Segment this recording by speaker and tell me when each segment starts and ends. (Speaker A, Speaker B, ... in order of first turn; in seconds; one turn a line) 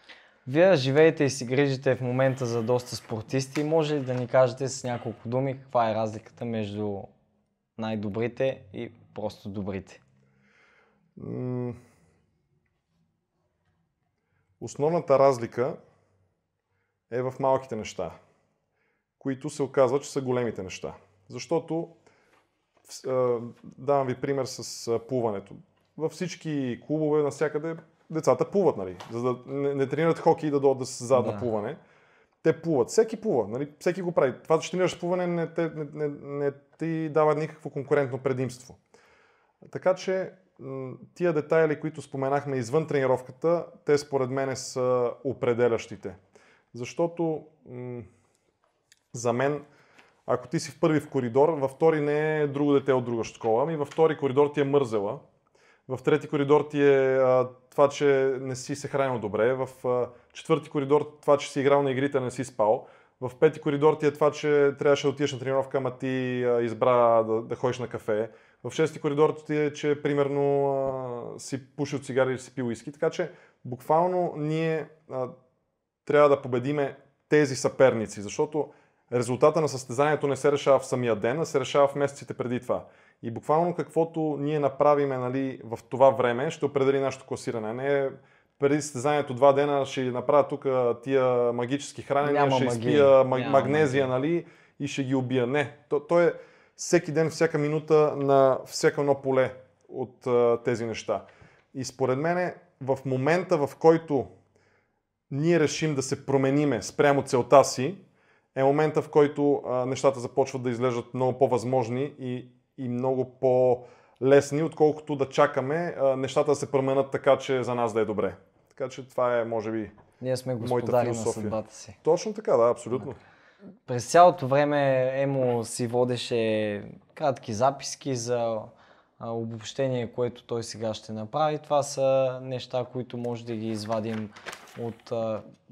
Speaker A: 0.5-7.1
Speaker A: 7.8-10.0
Speaker B: 11.2-11.8
Speaker B: 14.6-15.8
Speaker B: 17.1-18.2
Speaker B: 19.2-21.9
Speaker B: 22.9-31.8
Speaker A: 31.1-31.5
Speaker B: 32.4-38.8
Speaker B: 39.6-46.2
Speaker B: 46.7-48.1
Speaker B: 49.1-49.7
Speaker B: 50.3-55.2
Speaker B: 55.9-75.3
Speaker B: 76.1-104.3
Speaker A: 92.2-94.1
Speaker B: 105.3-108.0
Speaker B: 108.5-120.0
Speaker A: 120.2-122.0
Speaker B: 120.6-123.2
Speaker A: 123.9-135.5